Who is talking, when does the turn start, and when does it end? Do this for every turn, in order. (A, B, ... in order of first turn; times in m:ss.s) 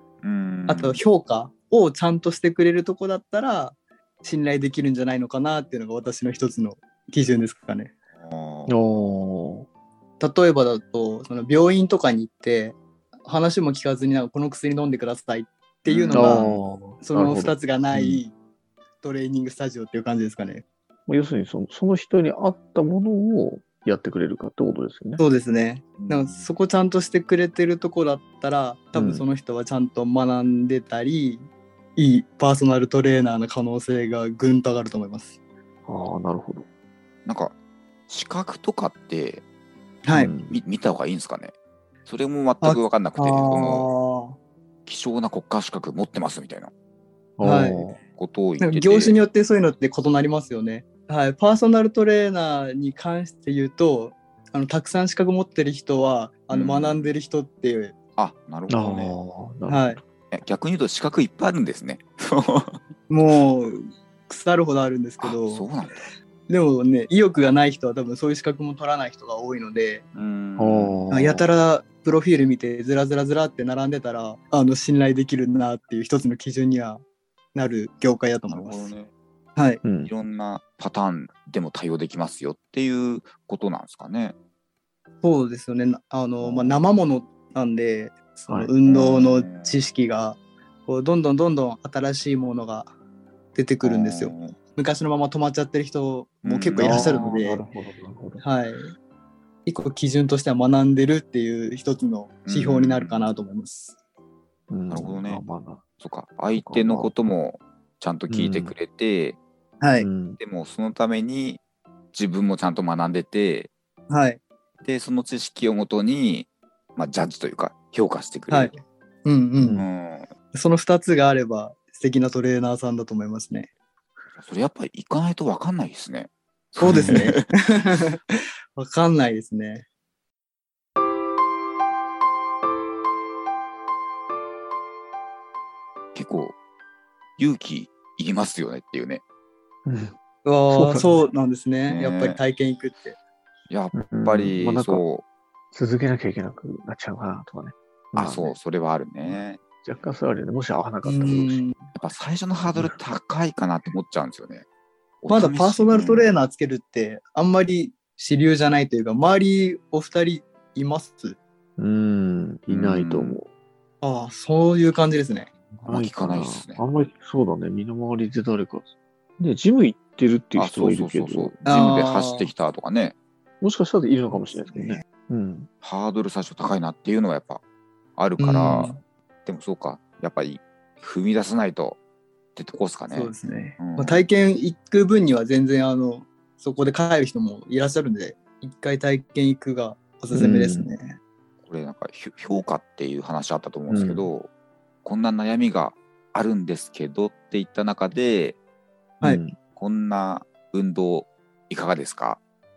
0:00.2-0:01.0 A
0:00.7-0:07.9 B
0:08.2-0:08.8 A
0:08.7-0:09.7 C
0:10.2-0:18.3 B
0:15.9-0:16.5 A
0:16.1-0:18.2 C
0:19.0-0:20.6 B
0:21.1-0:25.2 C
0:25.2-0:35.4 B
0:26.0-0:26.5 A
0:28.9-0:29.2 C
0:35.9-0:36.7 C
0:37.3-0:37.5 A
0:38.1-0:39.4 A
0:40.0-0:40.4 B
0:40.1-0:40.6 C
0:40.5-0:41.5 A
0:42.1-0:43.9 A
0:42.6-0:44.4 B
0:44.9-0:46.7 A
0:47.4-0:48.0 C
0:47.4-0:47.8 B
0:48.2-0:49.2 A
0:48.6-0:58.0 B
0:56.5-0:57.1 A
0:58.2-0:59.2 A
0:58.7-1:00.0 C
0:59.7-1:00.0 B
1:00.3-1:02.8 A
1:03.1-1:05.7 B
1:05.2-1:06.1 A
1:06.5-1:10.1 B
1:10.1-1:11.1 A
1:10.6-1:11.5 C
1:11.1-1:17.0 B
1:17.6-1:18.9 B
1:18.5-1:19.1 A
1:19.6-1:19.8 B
1:19.8-1:20.1 C
1:20.0-1:24.4 A
1:25.2-1:32.9 B
1:26.4-1:26.8 C
1:28.9-1:29.8 A
1:33.5-1:37.6 B
1:33.8-1:34.6 A
1:36.4-1:37.2 A
1:36.8-1:38.4 C
1:38.4-1:38.9 B
1:39.7-1:44.0 B
1:42.4-1:43.3 A
1:44.7-1:45.8 C
1:44.9-1:45.4 A
1:46.0-1:49.4 A
1:46.6-1:47.1 C
1:48.3-1:48.8 C
1:49.8-1:50.1 B
1:50.0-1:50.4 C
1:50.4-1:51.6 A
1:52.1-1:53.7 A
1:54.1-1:54.4 B
1:54.8-1:58.7 A
1:58.5-1:59.8 B
1:59.6-1:59.9 C
1:59.8-2:00.3 A
2:00.5-2:03.7 B
2:04.4-2:07.4 A
2:06.8-2:09.8 B
2:06.9-2:07.2 C
2:16.2-2:16.6 A
2:17.4-2:19.2 A
2:19.9-2:20.1 C
2:20.4-2:23.2 B
2:20.7-2:21.2 C
2:21.9-2:22.4 A
2:23.7-2:25.2 A
2:23.9-2:25.0 C
2:25.7-2:28.6 C
2:28.2-2:29.6 A
2:29.3-2:31.6 C
2:31.0-2:31.9 B
2:31.9-2:34.6 A
2:32.7-2:33.0 C
2:35.2-2:36.4 A
2:35.3-2:41.4 B
2:41.8-2:43.5 C
2:42.7-2:43.4 A
2:44.0-2:45.5 B
2:45.7-2:51.6 C
2:45.8-2:46.8 A
2:50.6-2:53.2 A
2:51.6-2:52.5 B
2:53.6-2:55.7 C
2:54.7-2:55.0 B
2:55.8-2:57.6 A
2:58.2-2:58.9 A
2:58.4-2:59.0 B
2:59.5-3:02.0 A
3:02.6-3:04.2 A
3:03.1-3:11.1 B
3:10.3-3:10.9 C
3:11.6-3:14.5 A
3:13.9-3:14.3 C
3:15.0-3:18.6 A
3:19.2-3:19.6 C
3:19.8-3:22.4 A